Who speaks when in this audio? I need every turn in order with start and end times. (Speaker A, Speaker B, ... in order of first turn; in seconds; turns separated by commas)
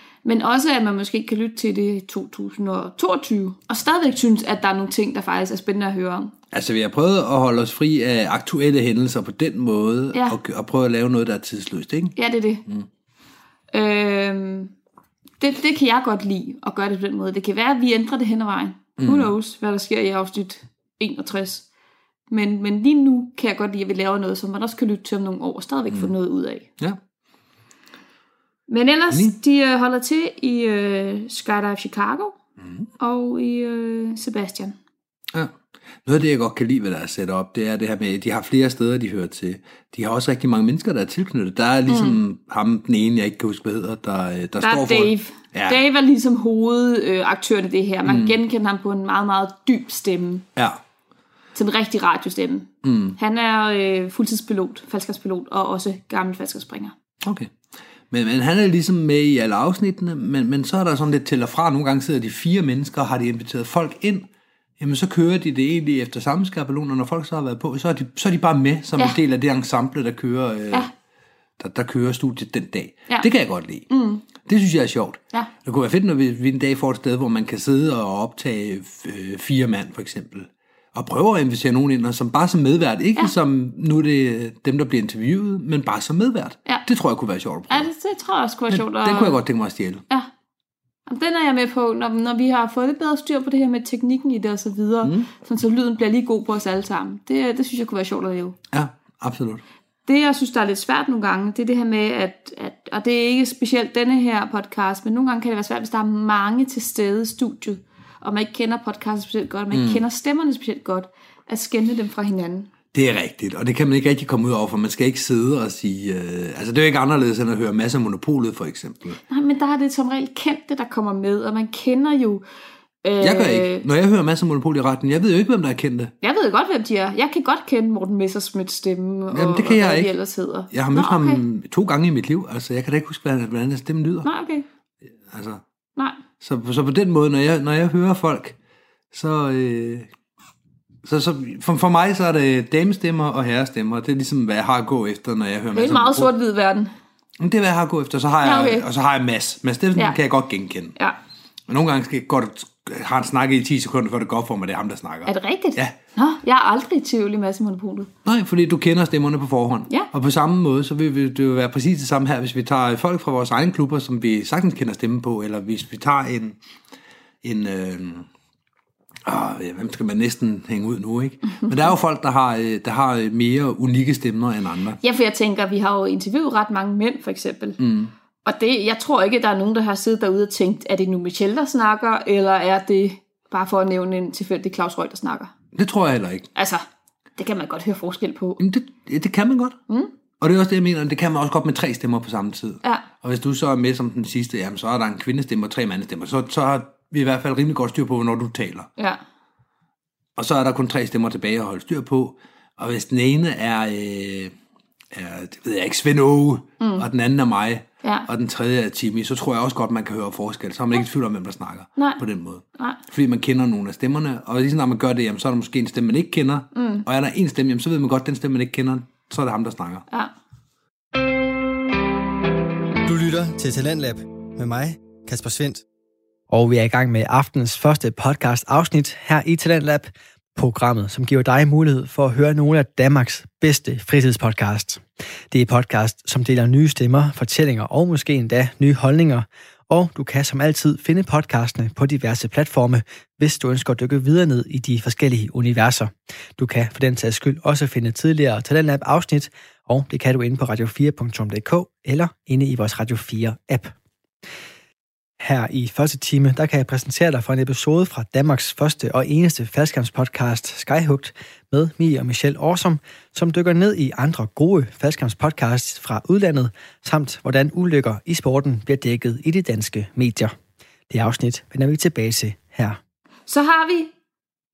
Speaker A: 0.2-6.3, Speaker B: 6.5-12.1, Speaker A: 12.2-12.6, Speaker A: 13.7-14.7, Speaker A: 15.4-21.6, Speaker B: 19.0-19.3, Speaker A: 22.3-26.6, Speaker A: 28.7-32.3, Speaker B: 32.6-32.9, Speaker A: 33.0-34.8, Speaker B: 36.0-45.8, Speaker A: 41.9-42.2, Speaker A: 44.6-50.5, Speaker B: 48.0-48.4, Speaker A: 51.5-56.9, Speaker B: 52.8-53.1, Speaker B: 57.2-57.5, Speaker B: 58.1-64.3, Speaker B: 64.8-70.9, Speaker B: 71.6-73.9, Speaker A: 73.9-74.2, Speaker B: 74.4-87.9, Speaker A: 87.7-89.4, Speaker B: 88.7-90.0, Speaker A: 91.1-98.5, Speaker B: 95.0-95.3, Speaker B: 98.7-99.6, Speaker A: 100.0-112.7, Speaker B: 109.7-110.0, Speaker B: 112.9-119.2, Speaker A: 119.3-122.4, Speaker A: 123.0-123.8, Speaker B: 123.2-126.1, Speaker A: 126.2-131.4, Speaker B: 129.3-130.1, Speaker B: 130.7-134.3, Speaker A: 134.2-134.7, Speaker B: 135.3-135.6, Speaker B: 136.4-138.5, Speaker B: 139.1-140.1, Speaker B: 141.0-146.3, Speaker A: 145.7-146.9, Speaker B: 147.4-150.9, Speaker A: 148.4-148.8, Speaker B: 151.7-155.9, Speaker A: 155.3-158.1, Speaker B: 158.2-166.6, Speaker B: 167.4-168.3, Speaker B: 169.2-175.0, Speaker A: 175.0-177.8, Speaker B: 177.8-178.1, Speaker A: 178.4-185.5, Speaker B: 185.7-186.5, Speaker A: 186.5-186.8, Speaker A: 187.4-188.6, Speaker B: 188.6-189.8, Speaker B: 190.4-198.9, Speaker B: 200.4-204.5, Speaker B: 205.1-220.1, Speaker A: 206.8-207.0, Speaker A: 211.9-212.2, Speaker A: 216.7-217.0, Speaker C: 223.1-225.8, Speaker C: 226.5-253.9, Speaker C: 255.4-270.5, Speaker C: 271.1-273.0, Speaker A: 273.5-274.1